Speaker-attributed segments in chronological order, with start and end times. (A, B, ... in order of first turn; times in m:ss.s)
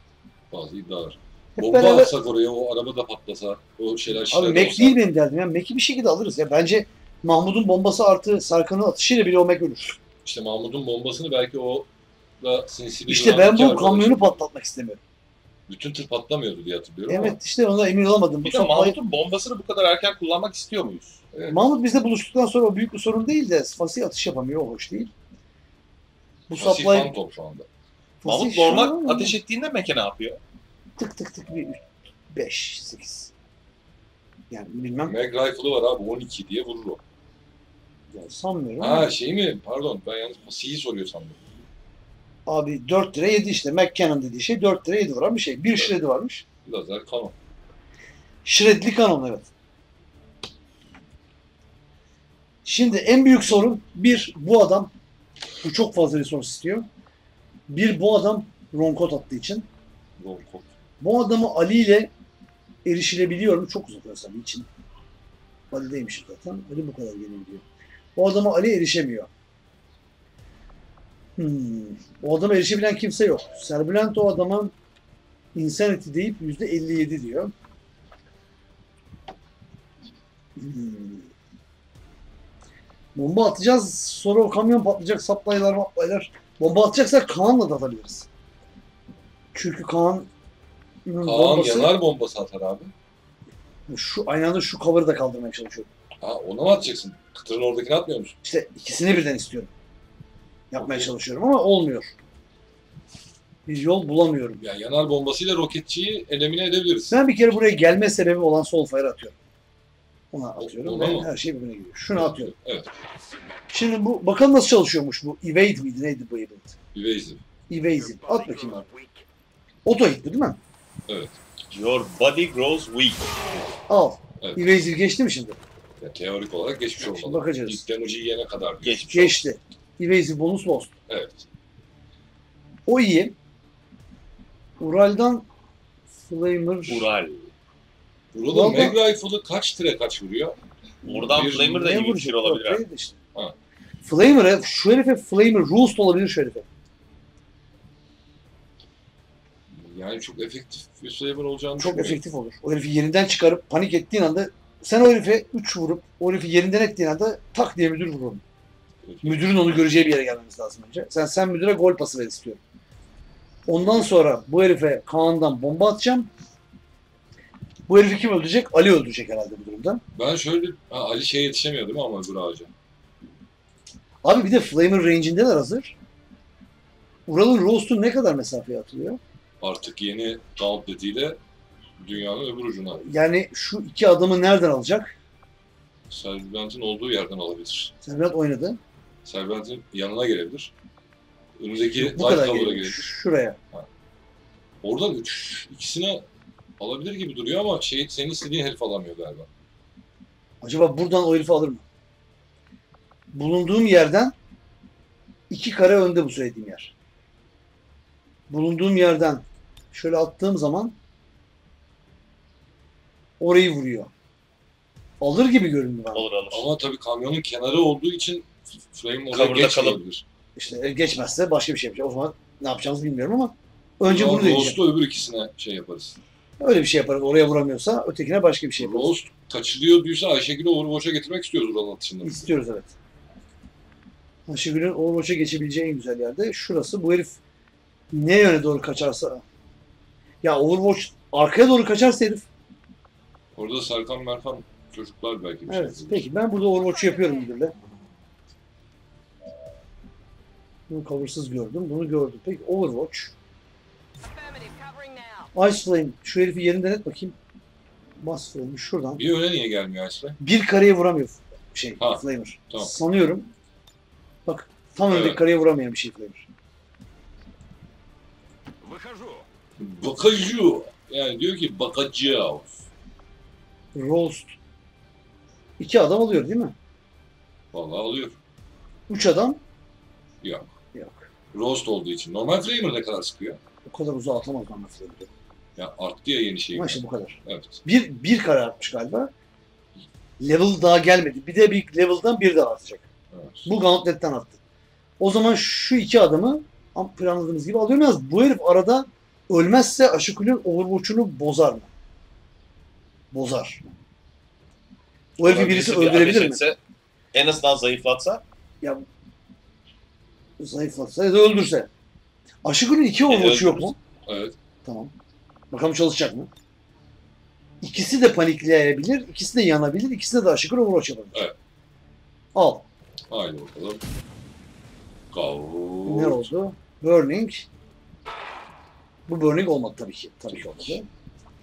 0:00.5-0:05.0 A
0:01.6-0:02.1 B
0:04.3-0:10.0 B
0:10.2-0:11.9 A
0:12.4-0:14.4 A
0:13.1-0:15.0 B
0:15.7-0:17.4 A
0:17.1-0:19.0 B
0:18.4-0:21.2 C
0:21.3-0:21.6 A
0:21.5-0:25.1 B
0:26.5-0:27.1 B
0:26.6-0:27.7 A
0:28.2-0:29.4 B
0:28.2-0:30.4 C
0:31.0-0:33.3 B
0:34.5-0:35.1 B
0:35.0-0:37.0 A
0:38.1-0:39.1 B
0:38.8-0:41.4 A
0:42.4-0:46.4 B
0:46.6-0:47.3 A
0:48.4-0:49.5 B
0:52.6-0:54.9 B
0:55.6-0:56.9 B
0:57.7-0:59.7 B
1:00.2-1:00.7 A
1:01.0-1:02.1 B
1:02.8-1:04.7 B
1:05.7-1:07.6 B
1:08.2-1:09.3 B
1:11.4-1:14.7 B
1:15.5-1:17.5 B
1:20.6-1:21.3 B
1:23.1-1:28.3 B
1:29.5-1:30.3 B
1:31.0-1:32.0 B
1:31.2-1:32.9 A
1:33.9-1:35.9 B
1:36.2-1:38.3 A
1:38.4-1:39.7 B
1:40.7-1:42.1 B
1:40.8-1:41.1 A
1:43.7-1:44.6 B
1:44.6-1:47.1 A
1:47.1-1:49.3 B
1:50.3-1:52.5 B
1:50.6-1:51.3 A
1:52.1-1:52.9 A
1:53.7-1:56.7 B
1:56.9-1:57.4 A
1:57.7-1:58.8 B
1:59.8-2:00.6 B
2:01.1-2:01.3 A
2:01.7-2:03.3 C
2:03.9-2:05.6 B
2:04.4-2:04.8 A
2:06.0-2:09.4 A
2:07.0-2:07.8 B
2:08.8-2:09.2 C
2:09.1-2:10.9 B
2:11.1-2:11.4 A
2:12.9-2:13.3 B
2:14.8-2:15.4 B
2:16.2-2:17.1 B
2:16.9-2:17.5 C
2:18.3-2:20.6 A
2:18.5-2:19.0 B
2:21.0-2:23.2 B
2:21.0-2:22.8 C
2:21.2-2:21.9 A
2:24.0-2:26.6 B
2:29.7-2:32.2 A
2:31.8-2:38.4 B
2:39.0-2:39.6 A
2:39.2-2:42.6 B
2:43.7-2:46.3 B
2:47.9-2:50.0 B
2:50.1-2:52.7 A
2:54.2-2:55.9 B
2:57.3-2:59.2 B
2:59.6-3:01.4 A
3:02.0-3:03.0 A
3:03.0-3:05.1 B
3:06.1-3:07.9 A
3:08.0-3:08.8 B
3:09.2-3:10.7 A
3:11.6-3:13.1 A
3:11.9-3:13.6 B
3:14.8-3:16.2 A
3:16.8-3:19.5 A
3:20.6-3:21.8 B
3:23.3-3:24.3 B
3:25.5-3:26.9 B
3:28.5-3:31.0 B
3:33.4-3:34.1 B
3:35.2-3:36.2 B
3:36.1-3:36.7 C
3:36.5-3:40.2 A
3:39.3-3:40.0 C
3:40.6-3:44.8 B
3:44.0-3:46.2 A
3:46.6-3:49.1 B
3:48.8-3:52.5 A
3:52.2-3:52.9 B
3:54.5-3:57.4 B
3:58.1-3:59.4 B
4:00.4-4:02.4 B
4:03.5-4:06.3 A
4:05.7-4:07.7 B
4:10.9-4:13.3 B
4:15.5-4:17.4 B
4:18.2-4:19.2 B
4:19.2-4:20.4 A
4:20.4-4:23.5 B
4:22.0-4:22.9 A
4:24.4-4:26.4 B
4:25.1-4:25.4 A
4:29.8-4:32.8 A
4:33.9-4:34.5 B
4:35.8-4:36.7 B
4:37.7-4:38.3 A
4:39.1-4:39.6 B
4:40.4-4:40.7 A
4:40.9-4:41.2 B
4:41.5-4:43.6 A
4:43.9-4:45.3 B
4:45.8-4:47.8 A
4:46.7-4:49.3 B
4:50.4-4:53.0 B
4:53.3-4:53.7 A
4:53.6-4:54.6 B
4:55.2-5:01.9 B
5:03.3-5:03.9 B
5:05.4-5:06.6 B
5:05.4-5:06.8 C
5:07.3-5:08.4 C
5:10.6-5:11.9 B
5:12.6-5:14.0 B
5:13.3-5:13.9 C
5:14.2-5:14.5 A
5:14.8-5:15.1 B
5:15.7-5:16.5 B
5:17.8-5:21.4 B
5:22.5-5:22.8 B
5:23.3-5:24.0 A
5:25.3-5:26.4 A
5:26.0-5:27.6 B
5:29.3-5:31.1 B